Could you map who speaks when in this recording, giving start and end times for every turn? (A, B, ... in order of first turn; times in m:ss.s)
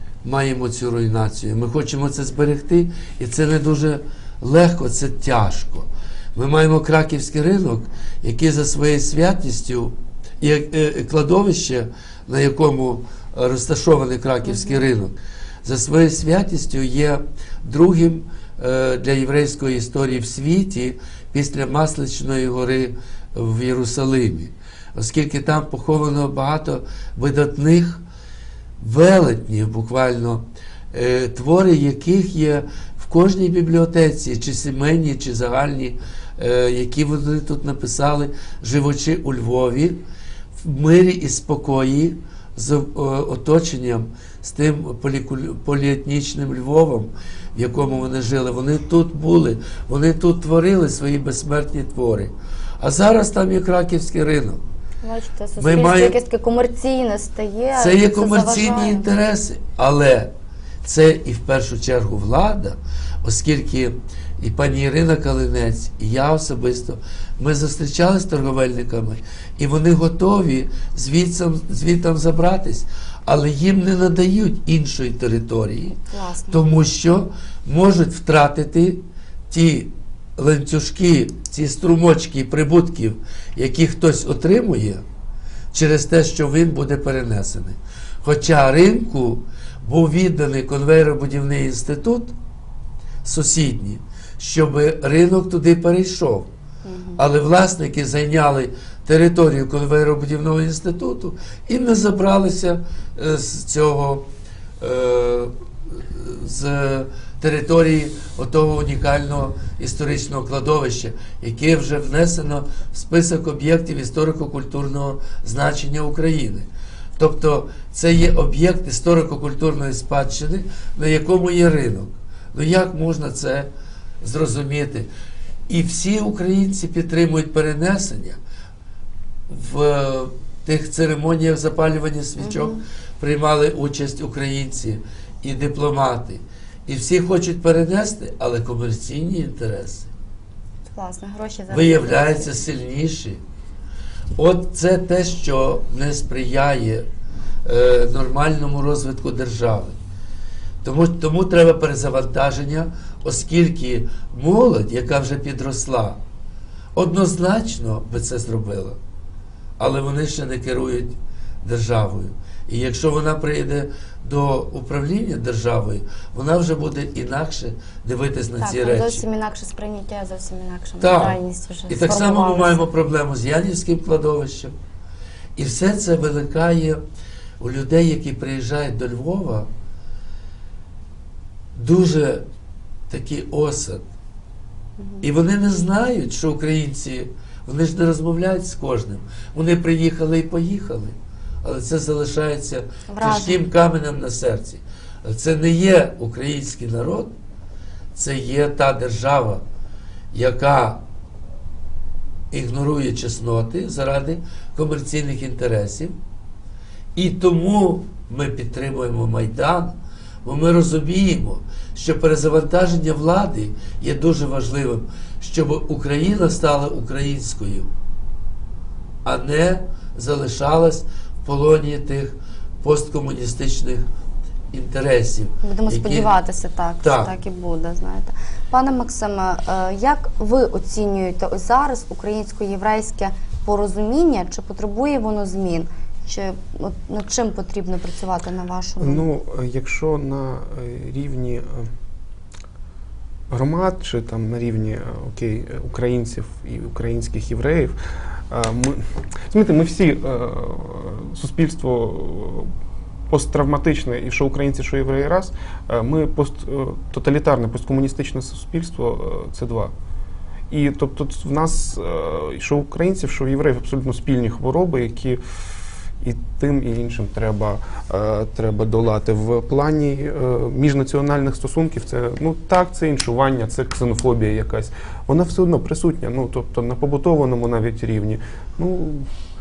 0:00.2-0:28.0 A
0:14.4-0:14.8 B
0:28.8-0:40.0 A
0:40.6-0:54.6 A
0:55.0-0:59.0 B
0:55.6-0:56.1 A
0:57.8-1:00.3 A
1:00.8-1:16.0 A
1:15.9-1:16.6 B
1:16.5-1:25.0 A
1:25.7-1:32.3 A
1:33.2-1:36.5 A
1:36.8-1:37.2 B
1:37.2-1:44.3 A
1:44.8-2:03.7 A
2:04.2-2:05.1 A
2:05.7-2:08.4 A
2:09.5-2:20.1 A
2:12.4-2:12.8 B
2:20.9-2:22.6 B
2:21.7-2:23.4 A
2:24.4-2:27.0 A
2:27.6-2:30.0 A
2:30.8-2:36.2 A
2:36.9-2:39.0 A
2:39.8-2:49.2 A
2:48.6-2:52.9 B
2:51.0-2:51.4 A
2:51.9-2:54.7 A
2:55.6-2:57.0 A
2:57.6-2:59.7 A
3:01.7-3:02.4 A
3:03.1-3:04.0 A
3:05.0-3:05.2 B
3:05.2-3:17.3 A
3:13.1-3:13.6 B
3:18.1-3:19.6 A
3:20.3-3:21.0 A
3:22.5-3:26.2 A
3:27.1-3:37.9 A
3:39.2-3:44.0 A
3:44.7-3:46.3 A
3:45.6-3:59.2 B
3:47.0-3:47.3 A
3:59.0-4:01.9 C
4:03.5-4:12.7 C
4:13.3-4:19.9 C
4:20.7-4:25.4 C
4:26.2-4:39.3 C